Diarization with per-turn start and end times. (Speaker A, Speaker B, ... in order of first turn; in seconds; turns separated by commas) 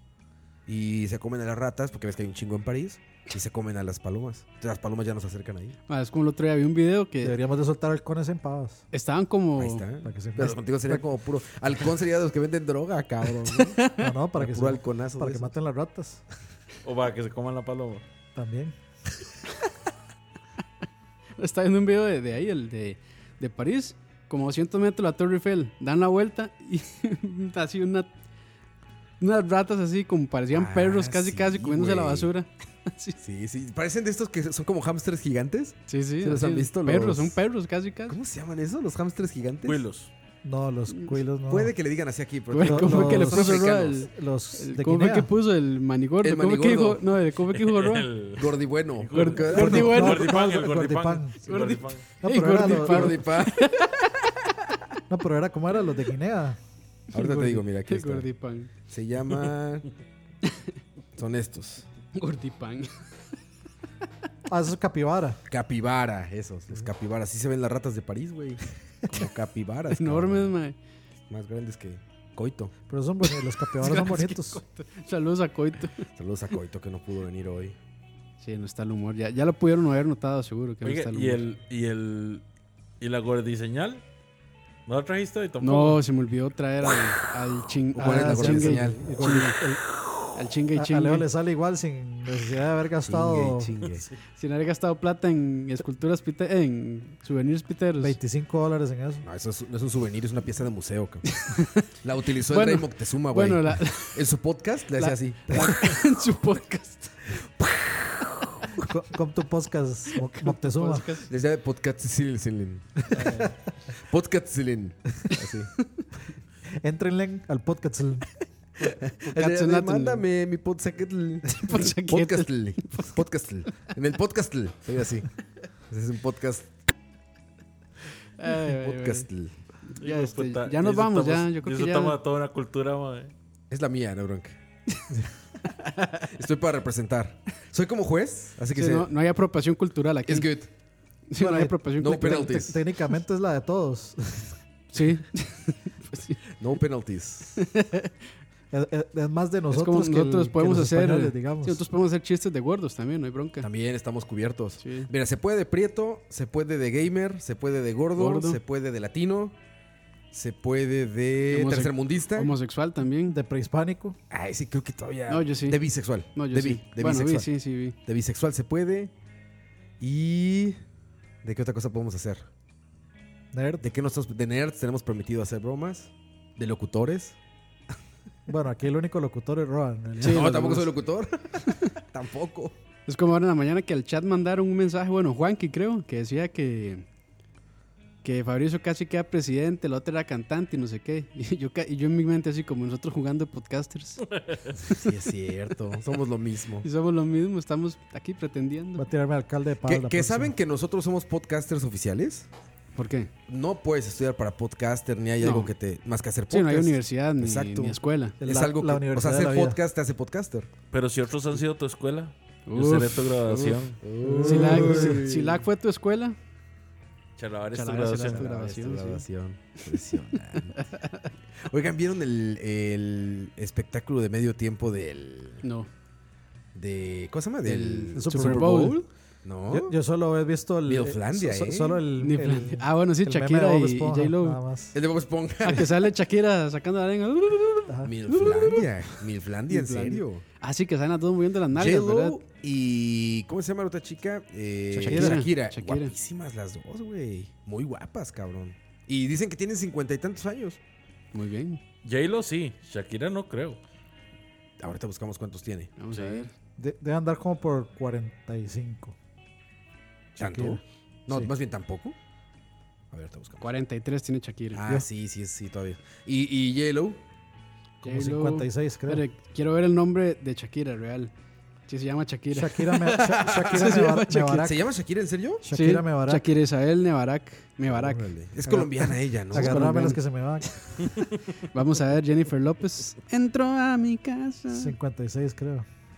Speaker A: 0.7-5.8, Speaker B: 5.9-7.4, Speaker C: 7.2-8.8, Speaker B: 8.9-9.8, Speaker A: 9.6-13.8, Speaker C: 10.0-11.0, Speaker B: 13.5-14.1, Speaker C: 14.0-16.2, Speaker A: 14.3-15.5, Speaker D: 16.8-18.0, Speaker C: 18.4-18.8, Speaker B: 21.4-28.1, Speaker B: 29.2-33.2, Speaker A: 30.5-32.3, Speaker A: 33.2-37.4, Speaker B: 35.9-38.2, Speaker A: 38.1-39.8, Speaker D: 39.6-40.1, Speaker C: 40.4-41.7, Speaker A: 41.5-44.0, Speaker B: 42.5-48.1, Speaker C: 42.6-45.3, Speaker A: 46.2-47.1, Speaker D: 47.5-52.0, Speaker A: 48.4-50.0, Speaker B: 49.1-50.4, Speaker C: 49.5-51.4, Speaker B: 51.5-54.1, Speaker C: 52.2-53.2, Speaker A: 52.5-53.9, Speaker C: 55.1-56.6, Speaker A: 57.1-58.3, Speaker B: 57.2-58.7, Speaker A: 58.9-59.9, Speaker A: 61.2-61.9, Speaker B: 62.1-63.0, Speaker C: 64.5-65.4, Speaker A: 65.5-70.5, Speaker B: 69.9-70.8, Speaker A: 71.3-72.7, Speaker C: 72.9-74.6, Speaker B: 73.8-76.1, Speaker A: 76.1-77.8, Speaker B: 78.4-81.4, Speaker D: 80.8-82.4, Speaker D: 83.0-84.0, Speaker D: 84.9-86.0, Speaker B: 85.6-89.6, Speaker A: 87.9-89.5, Speaker C: 88.0-89.9, Speaker B: 90.3-91.3, Speaker C: 90.8-93.8, Speaker A: 93.0-94.1, Speaker B: 94.3-98.2, Speaker C: 98.0-99.2, Speaker A: 99.2-106.0, Speaker B: 101.4-101.8, Speaker B: 102.5-104.2, Speaker B: 105.0-107.2, Speaker A: 107.4-108.8, Speaker C: 108.8-111.1, Speaker B: 110.3-111.3, Speaker A: 111.3-113.4, Speaker C: 113.1-113.5, Speaker B: 113.1-113.5, Speaker A: 113.9-115.7, Speaker C: 116.8-118.3, Speaker B: 118.8-120.2, Speaker A: 118.8-125.3, Speaker B: 121.5-123.2, Speaker A: 125.9-126.7, Speaker B: 128.4-129.3, Speaker A: 128.5-129.6, Speaker B: 129.9-132.2, Speaker D: 130.0-133.3, Speaker A: 133.7-134.6, Speaker A: 136.1-139.1, Speaker B: 138.7-140.5, Speaker A: 140.2-140.7, Speaker B: 141.3-142.8, Speaker C: 141.4-144.6, Speaker A: 142.0-142.8, Speaker B: 144.9-146.4, Speaker A: 146.5-147.6, Speaker B: 147.6-148.1, Speaker C: 148.7-151.8, Speaker B: 149.7-153.7, Speaker A: 153.6-159.6, Speaker B: 154.8-155.1, Speaker B: 158.2-158.6, Speaker A: 160.3-162.6, Speaker B: 161.5-163.4, Speaker C: 163.2-164.2, Speaker A: 164.3-167.5, Speaker B: 165.3-165.8, Speaker B: 166.3-168.0, Speaker A: 168.1-169.1, Speaker A: 170.0-170.8, Speaker A: 171.4-172.5, Speaker C: 173.5-173.9, Speaker A: 173.8-177.4, Speaker C: 178.5-180.9, Speaker B: 180.2-180.9, Speaker A: 180.2-182.8, Speaker B: 183.1-187.1, Speaker B: 188.2-194.2, Speaker D: 194.3-194.8, Speaker A: 194.9-196.9, Speaker B: 196.8-199.1, Speaker C: 199.0-200.5, Speaker A: 199.8-202.5, Speaker B: 203.0-203.3, Speaker A: 203.5-210.7, Speaker B: 205.4-205.7, Speaker B: 206.5-208.4, Speaker C: 208.4-209.8, Speaker D: 210.9-214.0, Speaker B: 212.7-213.4, Speaker A: 213.5-215.6, Speaker C: 214.3-215.2, Speaker B: 214.3-216.4, Speaker D: 217.4-218.5, Speaker B: 217.7-219.2, Speaker A: 218.2-220.8, Speaker B: 220.5-221.3, Speaker A: 221.6-225.6, Speaker B: 225.6-225.9, Speaker A: 226.7-230.0, Speaker B: 227.7-229.0, Speaker C: 228.1-228.9, Speaker C: 229.7-235.0, Speaker A: 230.8-232.1, Speaker B: 232.2-234.6, Speaker A: 234.9-236.1, Speaker B: 235.6-242.4, Speaker A: 238.0-240.4, Speaker A: 241.7-250.8, Speaker B: 244.9-246.1, Speaker C: 245.0-245.4, Speaker B: 251.3-251.8, Speaker D: 252.0-253.8, Speaker A: 254.8-256.5, Speaker B: 256.0-256.5, Speaker C: 256.8-259.1, Speaker A: 260.4-262.2, Speaker C: 260.4-261.5, Speaker A: 263.1-263.7, Speaker B: 263.6-264.9, Speaker A: 264.7-267.2, Speaker C: 268.0-269.2, Speaker B: 268.0-271.3, Speaker B: 271.9-274.7, Speaker C: 272.5-274.8, Speaker A: 273.1-274.0, Speaker A: 274.6-275.7, Speaker C: 275.6-276.5, Speaker B: 275.7-278.3, Speaker A: 277.9-280.0, Speaker C: 278.6-280.8, Speaker B: 279.6-280.2, Speaker B: 281.7-284.9, Speaker C: 284.7-285.9